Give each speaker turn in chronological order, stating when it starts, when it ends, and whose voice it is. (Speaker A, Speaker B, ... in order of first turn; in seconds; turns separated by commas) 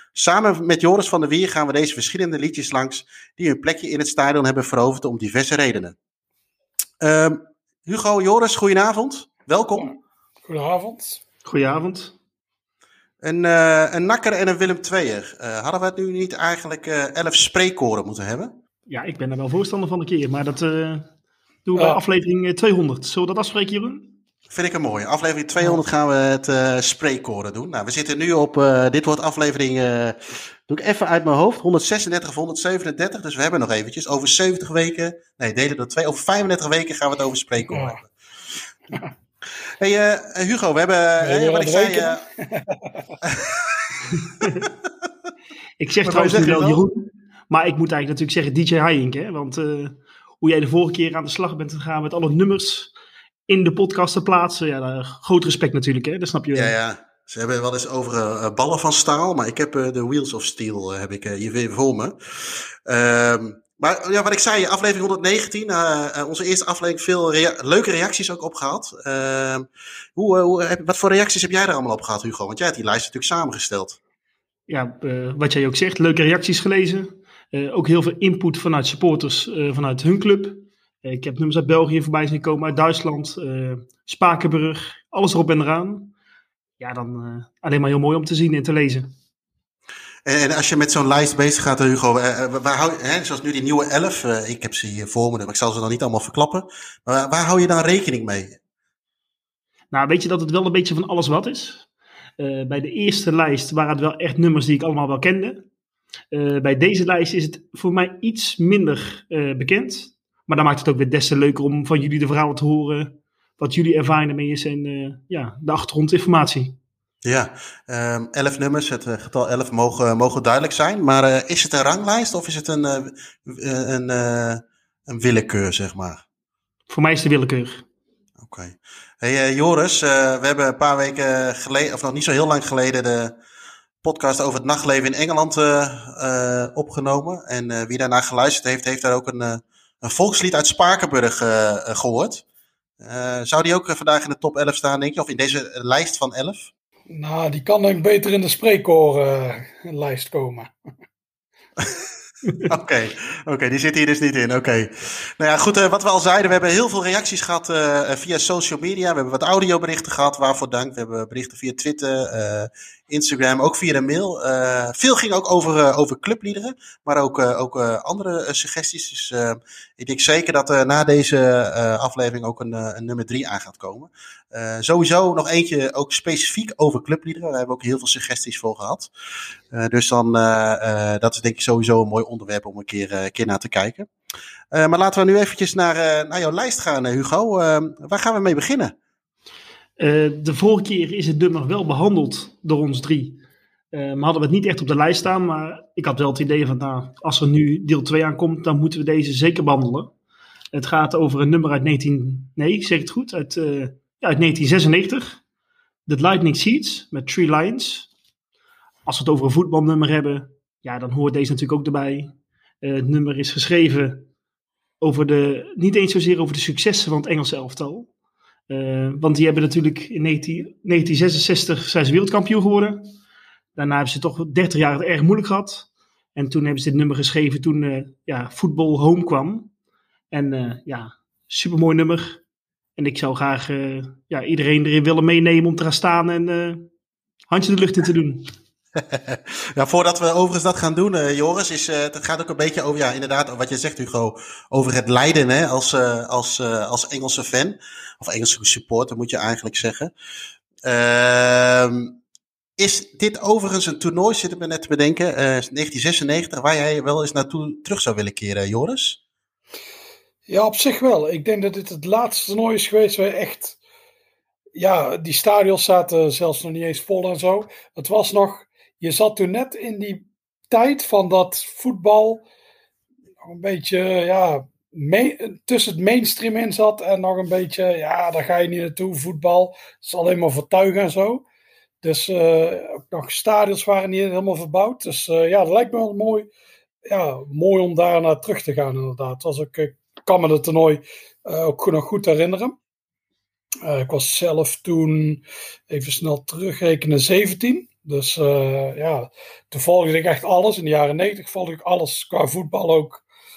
Speaker A: 0.1-6.0, Speaker A: 7.0-9.9, Speaker B: 10.4-11.2, Speaker C: 11.5-12.2, Speaker A: 13.2-18.5, Speaker C: 18.9-21.1, Speaker C: 21.7-24.2, Speaker A: 24.5-38.1, Speaker B: 37.7-38.0, Speaker A: 39.8-42.2, Speaker B: 41.2-43.1, Speaker C: 45.8-52.9, Speaker A: 46.0-46.8, Speaker C: 53.5-56.8, Speaker A: 56.5-74.0, Speaker C: 74.7-86.1, Speaker C: 86.8-89.2, Speaker A: 90.2-98.6, Speaker C: 99.9-101.9, Speaker C: 102.4-105.7, Speaker C: 106.3-116.8, Speaker A: 117.2-126.2, Speaker C: 126.9-127.8, Speaker A: 128.4-133.4, Speaker A: 134.0-142.4, Speaker A: 143.0-146.7, Speaker B: 147.1-150.7, Speaker A: 152.6-179.1, Speaker A: 179.7-184.1, Speaker A: 184.7-188.9, Speaker C: 190.0-193.4, Speaker C: 193.9-200.1, Speaker C: 200.7-205.4, Speaker C: 206.1-208.1, Speaker C: 209.1-214.3, Speaker C: 215.0-218.1, Speaker C: 218.7-223.2, Speaker C: 223.8-229.7, Speaker C: 230.3-232.4, Speaker C: 233.0-236.9, Speaker C: 237.5-238.5, Speaker A: 239.0-250.1, Speaker A: 250.8-252.2, Speaker A: 252.8-259.2, Speaker B: 260.5-263.8, Speaker B: 264.7-272.4, Speaker B: 273.4-281.4, Speaker B: 282.0-286.5, Speaker B: 287.1-292.8, Speaker B: 293.8-303.2